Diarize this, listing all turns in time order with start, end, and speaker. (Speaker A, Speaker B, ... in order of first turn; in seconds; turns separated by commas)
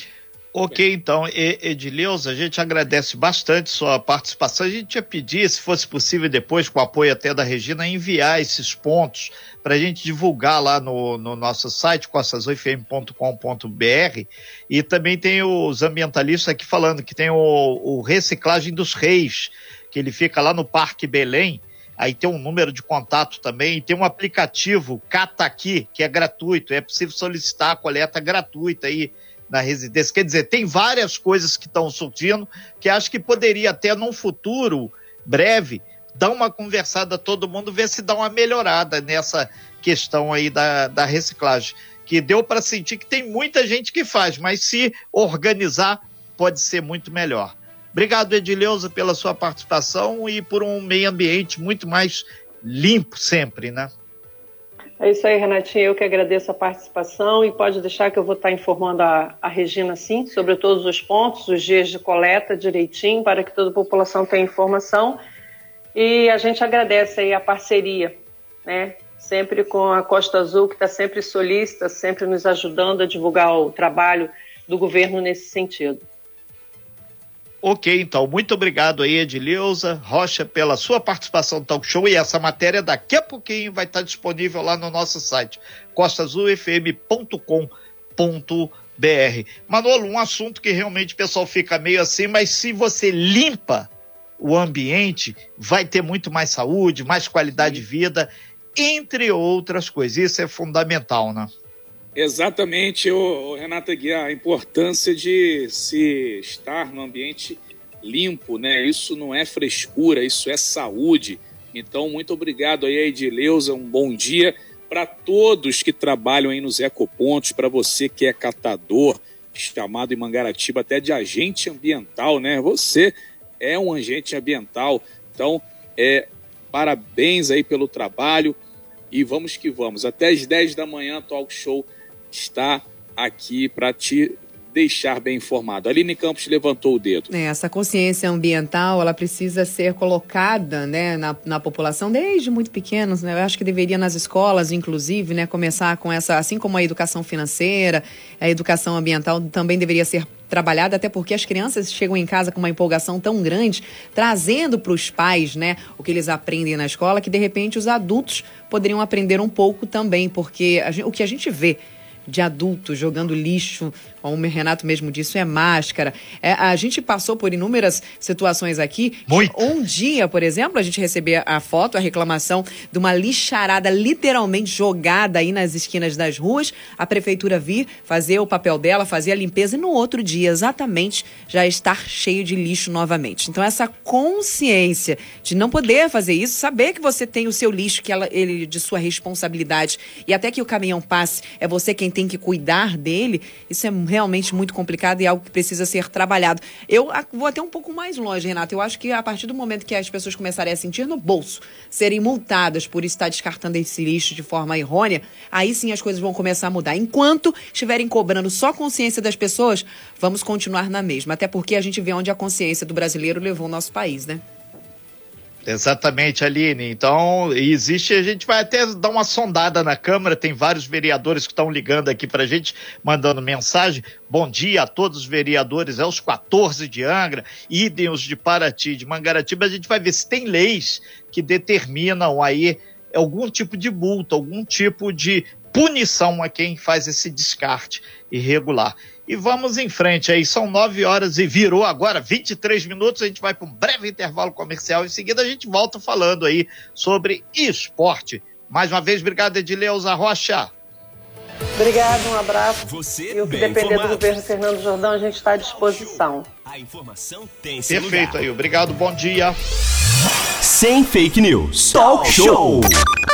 Speaker A: 0.5-53.9, Speaker B: 55.0-65.2, Speaker B: 65.9-68.1, Speaker B: 68.6-76.0, Speaker A: 77.6-101.5, Speaker C: 102.1-128.6, Speaker C: 129.1-137.3, Speaker D: 137.3-214.4, Speaker A: 169.3-169.7, Speaker A: 215.6-250.7, Speaker B: 251.8-256.5, Speaker E: 252.8-254.3, Speaker E: 255.6-258.4, Speaker A: 257.9-259.6, Speaker E: 260.6-263.0